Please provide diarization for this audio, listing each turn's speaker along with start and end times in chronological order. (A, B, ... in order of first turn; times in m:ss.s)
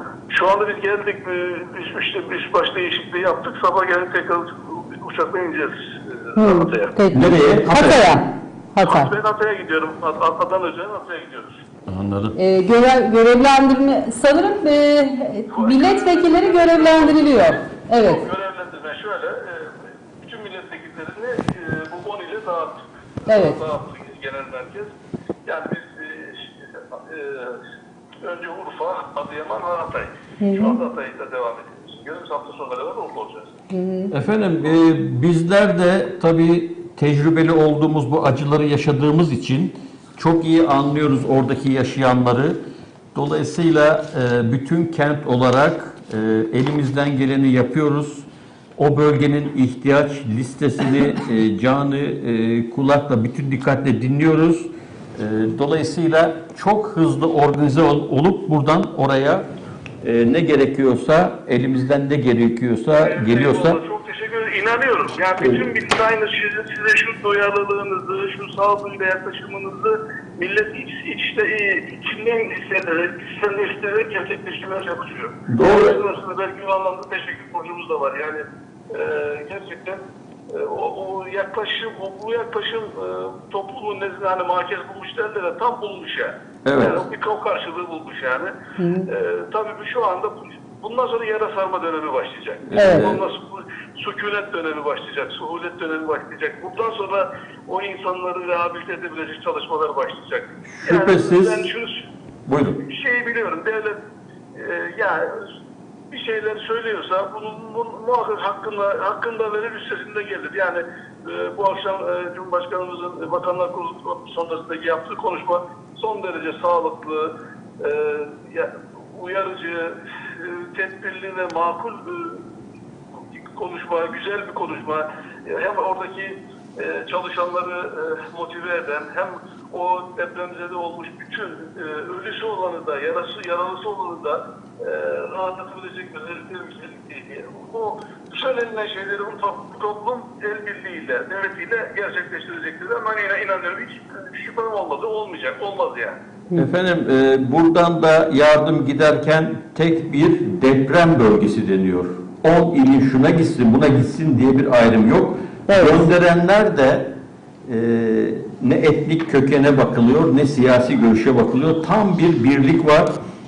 0:00.3-0:06.9 A
0:06.4-0:09.1 B
0:07.1-0:08.1 C
0:08.8-0:11.7 A
0:11.9-0:12.4 C
0:12.4-0:18.2 B
0:15.5-0:24.9 A
0:23.3-0:23.6 B
0:25.4-0:27.6 A
0:28.2-0:33.5 A
0:30.4-0:30.8 B
0:33.7-0:34.1 B
0:34.1-0:42.6 C
0:43.1-0:59.5 C
1:00.0-1:03.8 C
1:03.0-1:28.5 A
1:05.4-1:05.7 C
1:15.5-1:16.0 C
1:26.6-1:27.0 C
1:28.8-1:29.1 B
1:29.1-1:42.0 A
1:32.7-1:33.2 C
1:32.8-1:33.1 B
1:40.7-1:41.7 C
1:42.5-1:42.8 C
1:42.8-1:44.0 A
1:44.5-1:45.3 A
1:46.1-2:02.5 A
2:03.1-2:26.2 A
2:26.5-2:37.1 C
2:35.7-2:36.1 B
2:37.7-2:43.2 C